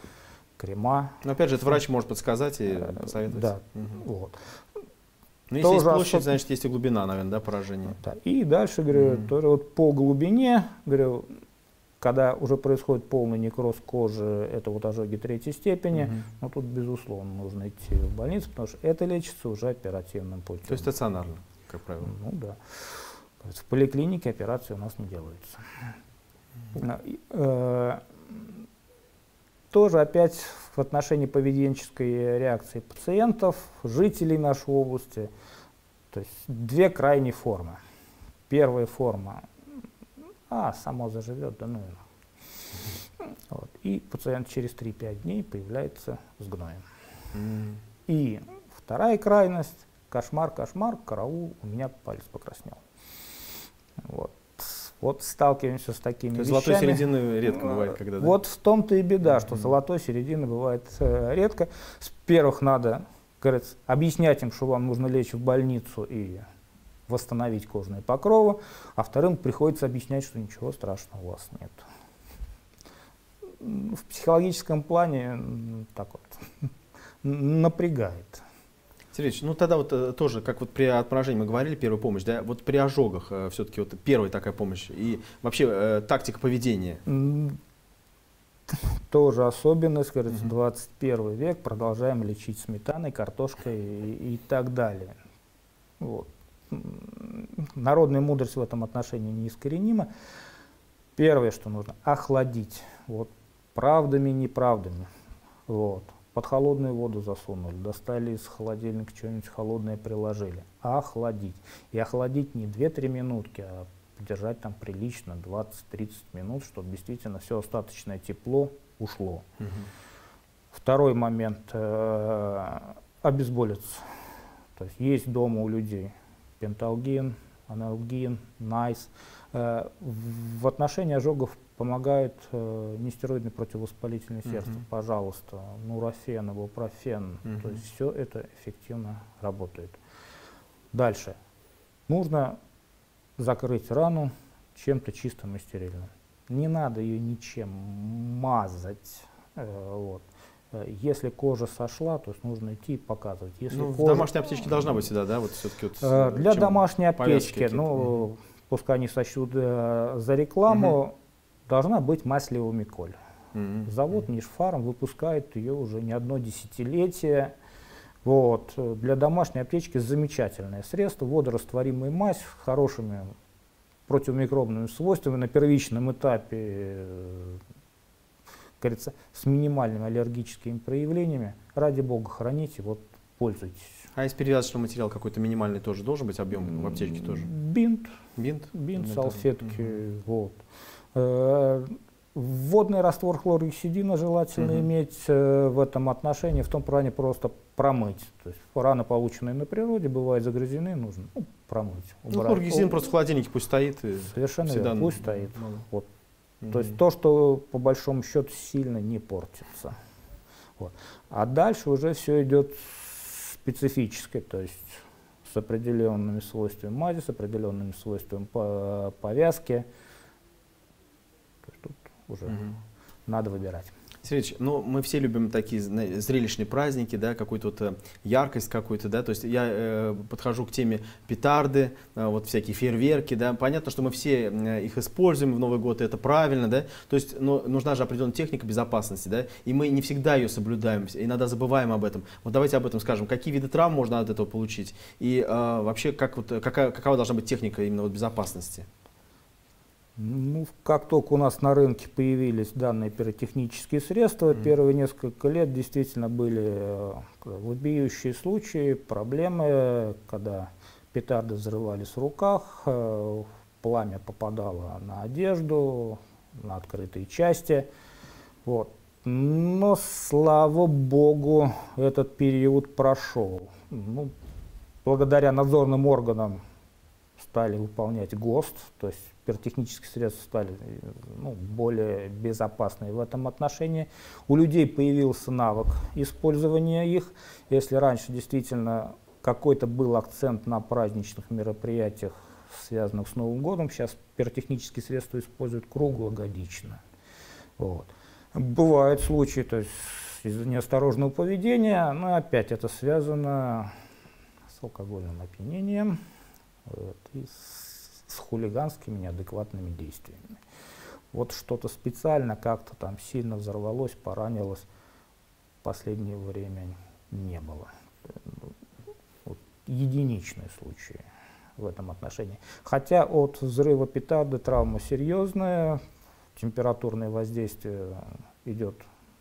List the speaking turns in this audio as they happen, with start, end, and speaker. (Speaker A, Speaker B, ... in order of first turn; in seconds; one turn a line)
Speaker A: 0.6-1.2
Speaker B: 1.2-4.0
Speaker A: 2.8-4.4
Speaker B: 5.5-8.0
Speaker A: 5.6-6.4
Speaker A: 8.0-11.3
Speaker B: 8.9-9.3
Speaker A: 12.0-20.9
Speaker B: 20.7-22.1
Speaker A: 22.0-25.6
Speaker A: 26.8-28.6
Speaker A: 29.7-35.3
Speaker A: 36.1-37.8
Speaker A: 38.5-39.5
Speaker A: 40.5-42.0
Speaker A: 43.2-46.8
Speaker B: 47.4-47.8
Speaker A: 48.1-52.8
Speaker A: 54.0-66.4
Speaker B: 56.3-58.4
Speaker A: 67.1-71.9
Speaker A: 73.6-76.4
Speaker A: 77.2-78.4
Speaker B: 79.1-87.0
Speaker A: 87.1-87.6
Speaker A: 88.7-95.2
Speaker A: 96.0-100.1
Speaker A: 101.2-105.1
Speaker A: 105.7-119.5
Speaker A: 120.7-124.0
Speaker A: 124.8-140.0
Speaker B: 137.5-137.8
Speaker A: 140.9-141.4
Speaker A: 142.1-142.6
Speaker A: 143.4-154.7
Speaker B: 153.7-158.1
Speaker A: 156.0-161.2
Speaker A: 161.7-163.2
Speaker B: 163.5-163.9
Speaker A: 163.9-167.6
Speaker A: 168.2-173.3
Speaker A: 174.1-177.6
Speaker A: 178.8-184.1
Speaker B: 184.1-187.5
Speaker A: 186.6-188.1
Speaker B: 188.4-189.4
Speaker A: 188.7-190.6
Speaker A: 191.1-203.1
Speaker B: 194.6-194.8
Speaker B: 202.3-205.8
Speaker A: 204.3-206.1
Speaker A: 206.7-210.0
Speaker A: 210.8-219.9
Speaker A: 221.6-222.6
Speaker B: 222.5-222.7
Speaker A: 223.3-223.9
Speaker B: 224.2-248.9
Speaker A: 250.2-267.9
Speaker A: 268.6-274.3
Speaker A: 275.1-276.6
Speaker A: 277.4-297.0
Speaker A: 297.8-303.9
Speaker A: 304.7-306.2
Speaker A: 306.9-310.6
Speaker A: 311.3-314.9
Speaker A: 315.8-318.6
Speaker A: 319.5-321.2
Speaker A: 321.8-326.0
Speaker A: 326.6-329.1